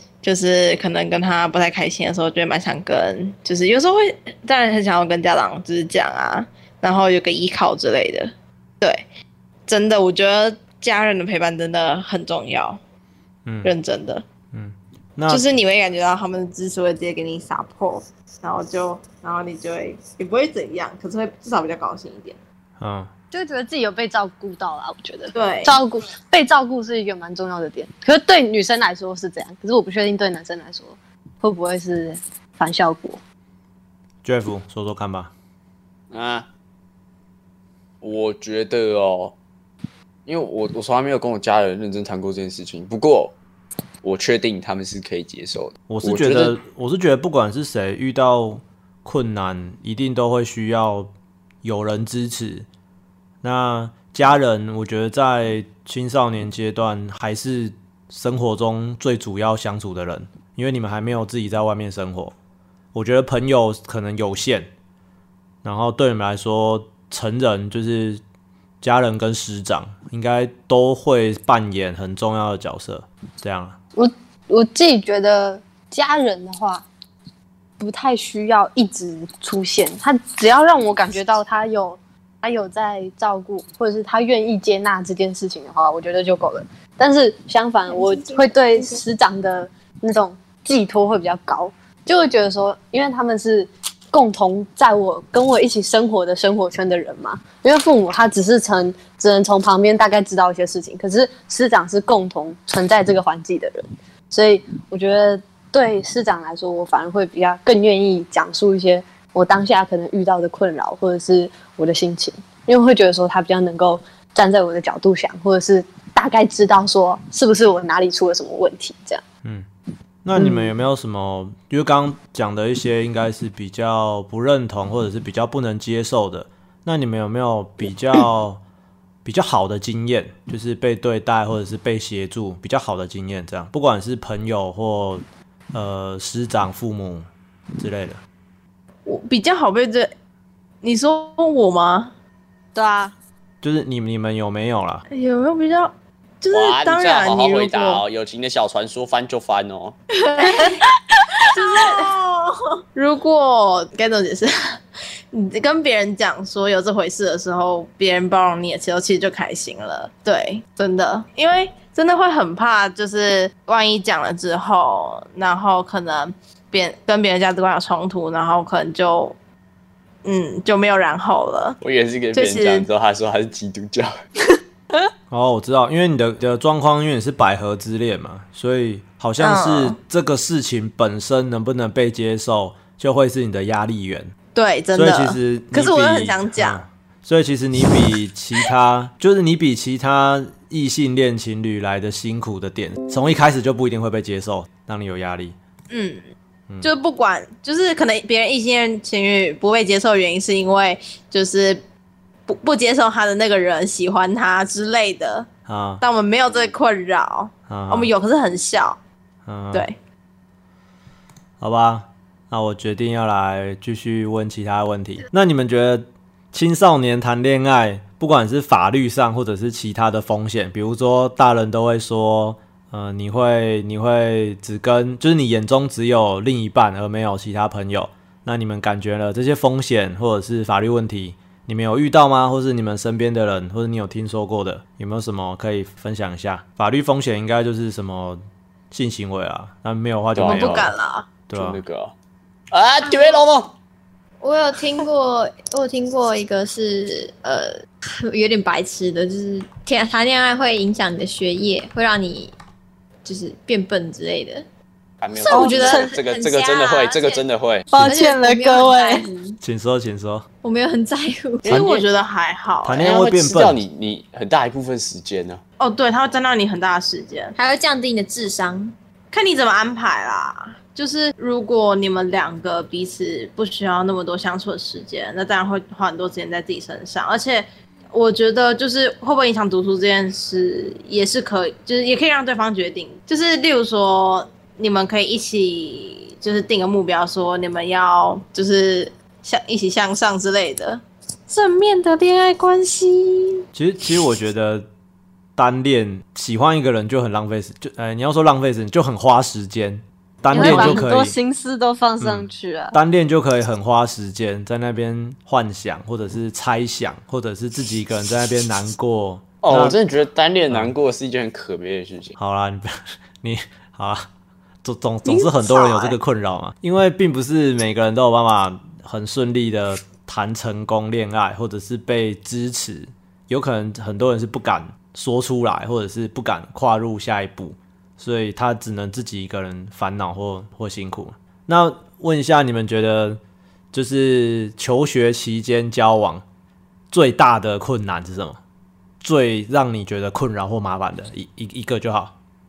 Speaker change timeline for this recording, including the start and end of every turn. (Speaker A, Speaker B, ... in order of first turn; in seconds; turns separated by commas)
Speaker A: 0.2-9.0, Speaker A: 9.7-12.8, Speaker B: 13.4-13.7, Speaker A: 13.6-14.2, Speaker B: 14.5-15.4, Speaker A: 15.3-22.4, Speaker B: 22.8-23.1, Speaker C: 23.3-33.2, Speaker A: 25.3-25.8, Speaker B: 34.2-35.3, Speaker D: 36.1-36.5, Speaker D: 38.0-39.4, Speaker D: 40.2-43.4, Speaker D: 44.0-46.6, Speaker B: 45.9-51.1, Speaker B: 51.6-52.7, Speaker B: 53.4-62.3, Speaker B: 62.9-64.7, Speaker B: 65.6-68.2, Speaker B: 68.8-73.8, Speaker C: 74.0-76.8, Speaker C: 77.8-119.2, Speaker E: 87.9-89.0, Speaker B: 120.2-128.6, Speaker C: 120.3-120.7, Speaker B: 129.2-138.2, Speaker A: 139.1-140.1, Speaker A: 140.8-142.1, Speaker C: 142.8-143.1, Speaker B: 143.6-145.0, Speaker A: 145.1-148.0, Speaker D: 146.5-149.9, Speaker A: 150.2-150.8, Speaker A: 151.5-154.8, Speaker A: 155.3-169.3, Speaker A: 170.2-171.8, Speaker D: 171.8-174.2, Speaker A: 172.3-172.9, Speaker B: 175.3-184.3, Speaker A: 179.4-180.0, Speaker A: 184.5-186.8, Speaker B: 184.9-195.6, Speaker A: 195.9-196.3, Speaker A: 196.8-201.8, Speaker A: 202.5-205.5, Speaker B: 205.7-206.0, Speaker A: 206.0-209.0, Speaker B: 207.7-208.1, Speaker B: 209.5-209.8, Speaker B: 211.6-240.9, Speaker D: 240.3-240.9, Speaker A: 240.4-241.3, Speaker B: 241.5-241.8, Speaker D: 241.5-242.1, Speaker D: 242.7-243.7, Speaker E: 243.0-243.4, Speaker E: 244.4-252.5, Speaker E: 253.2-254.6, Speaker D: 255.2-257.9, Speaker E: 255.3-257.4, Speaker C: 255.5-256.1, Speaker C: 257.9-259.3, Speaker E: 257.9-259.6, Speaker B: 259.6-260.5, Speaker E: 260.6-262.0, Speaker A: 261.6-263.1, Speaker B: 262.8-263.8, Speaker D: 263.0-265.6, Speaker A: 265.8-267.5, Speaker E: 267.6-268.9, Speaker A: 269.3-293.6, Speaker B: 293.7-294.9, Speaker B: 295.6-301.3, Speaker C: 300.5-303.0, Speaker E: 300.6-300.9, Speaker B: 302.2-310.0, Speaker D: 309.6-312.4, Speaker B: 312.4-314.3, Speaker B: 314.8-333.4, Speaker A: 315.8-316.0, Speaker B: 333.9-336.4, Speaker B: 337.1-338.6, Speaker B: 339.2-342.4